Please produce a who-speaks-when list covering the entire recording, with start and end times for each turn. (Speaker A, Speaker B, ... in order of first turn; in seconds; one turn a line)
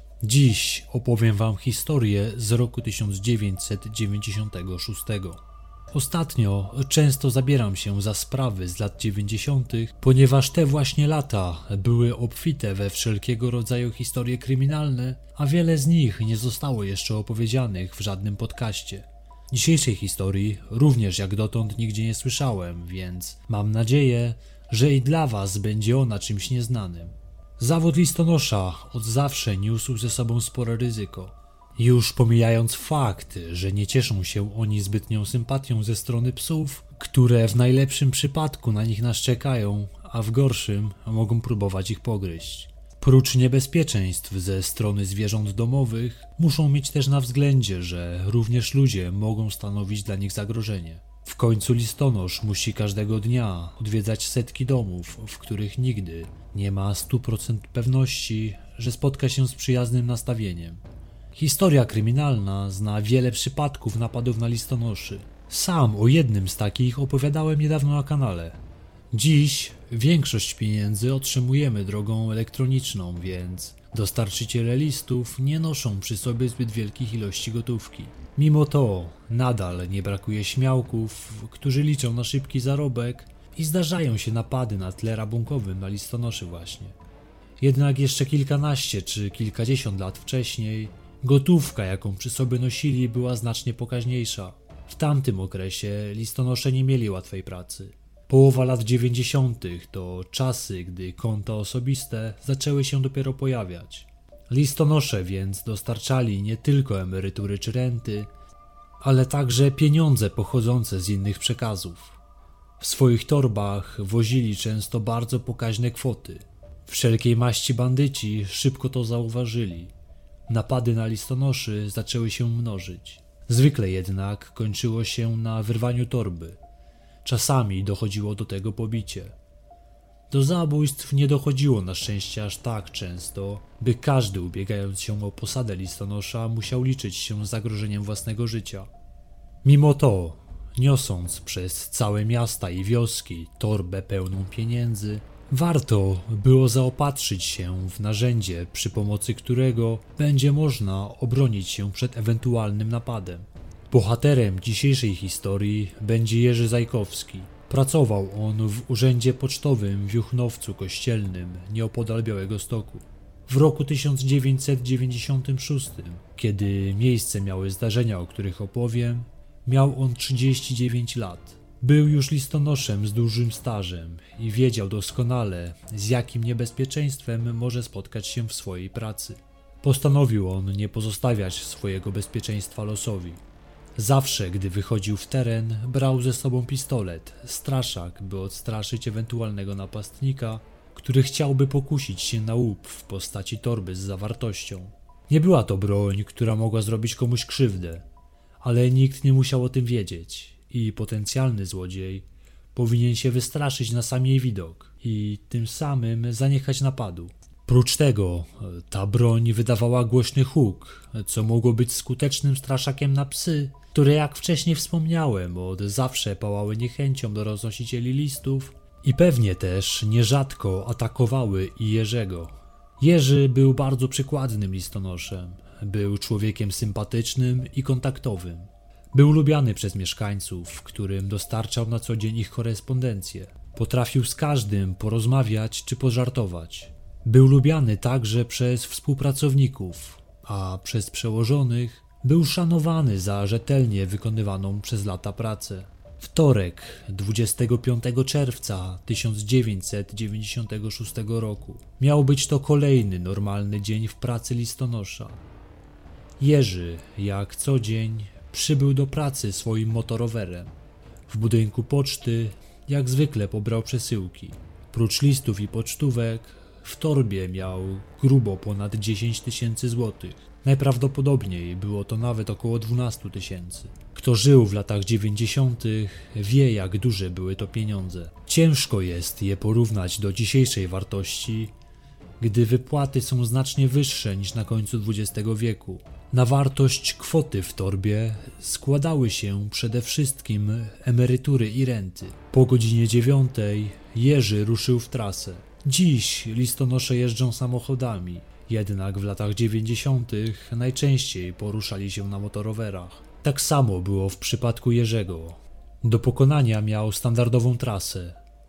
Speaker A: 0.2-60.8
Speaker A: 61.3-68.6
Speaker A: 69.1-87.0
Speaker A: 87.6-108.3
Speaker A: 109.0-112.2
Speaker A: 112.8-119.9
Speaker A: 120.5-126.6
Speaker A: 127.2-129.3
Speaker A: 130.3-138.9
Speaker A: 139.6-183.4
Speaker A: 183.9-198.0
Speaker A: 198.6-255.4
Speaker A: 256.4-260.7
Speaker A: 261.3-281.7
Speaker A: 282.4-308.4